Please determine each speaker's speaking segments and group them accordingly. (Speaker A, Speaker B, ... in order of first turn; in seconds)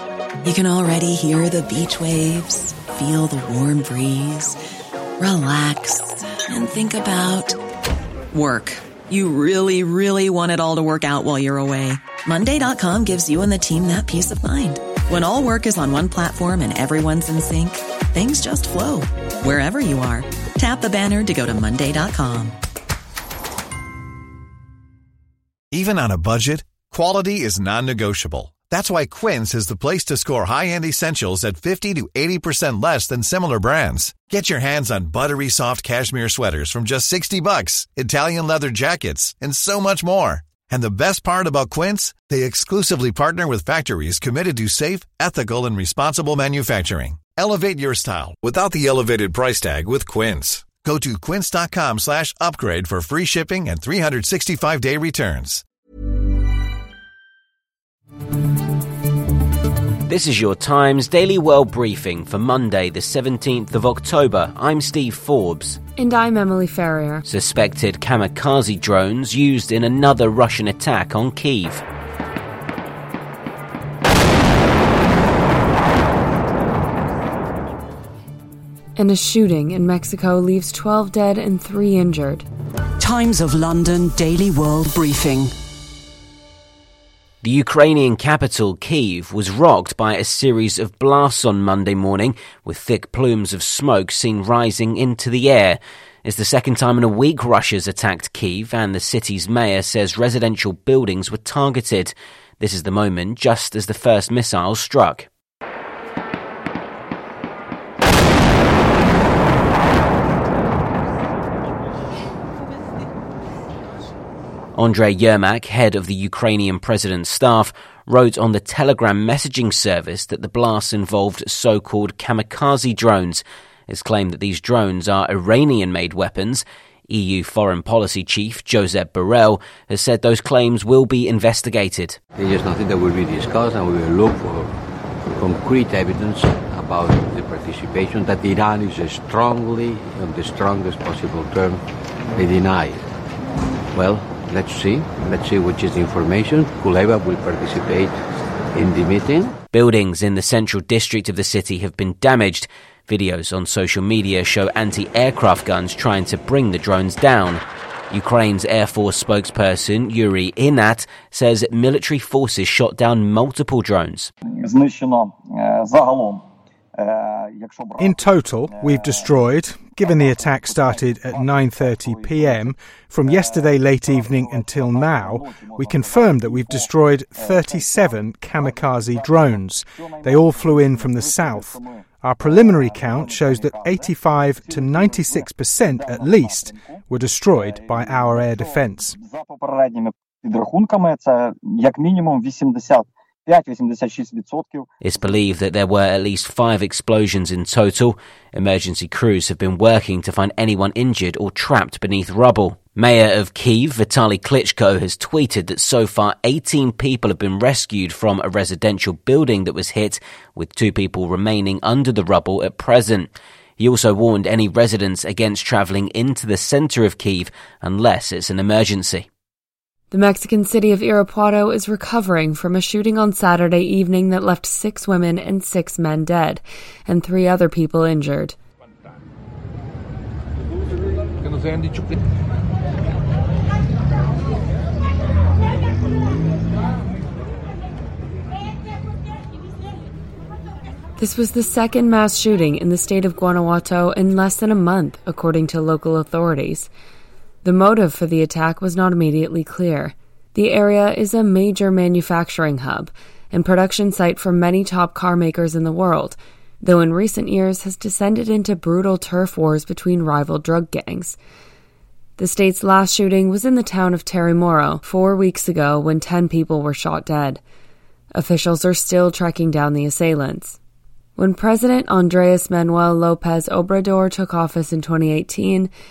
Speaker A: 0.4-4.5, 5.2-7.6, 8.3-22.6
Speaker B: 25.7-55.6, 164.7-165.0, 167.9-168.3, 168.8-169.2, 170.2-172.6, 174.3-176.6, 177.5-178.1, 179.1-179.4, 180.3-181.7, 182.4-184.1, 184.7-185.4, 186.1-186.6, 187.8-191.3, 191.8-194.8
Speaker C: 60.1-65.8, 67.2-71.8, 87.4-105.3, 114.8-132.2, 149.7-164.3, 195.0-219.2
Speaker D: 66.0-67.2, 79.0-82.4, 220.1-228.5, 241.2-246.9, 247.6-261.4, 262.4-267.6, 268.3-270.8, 271.4-275.9
Speaker E: 83.0-85.5
Speaker F: 132.3-143.0, 143.9-148.2, 148.7-149.6
Speaker G: 168.0-189.2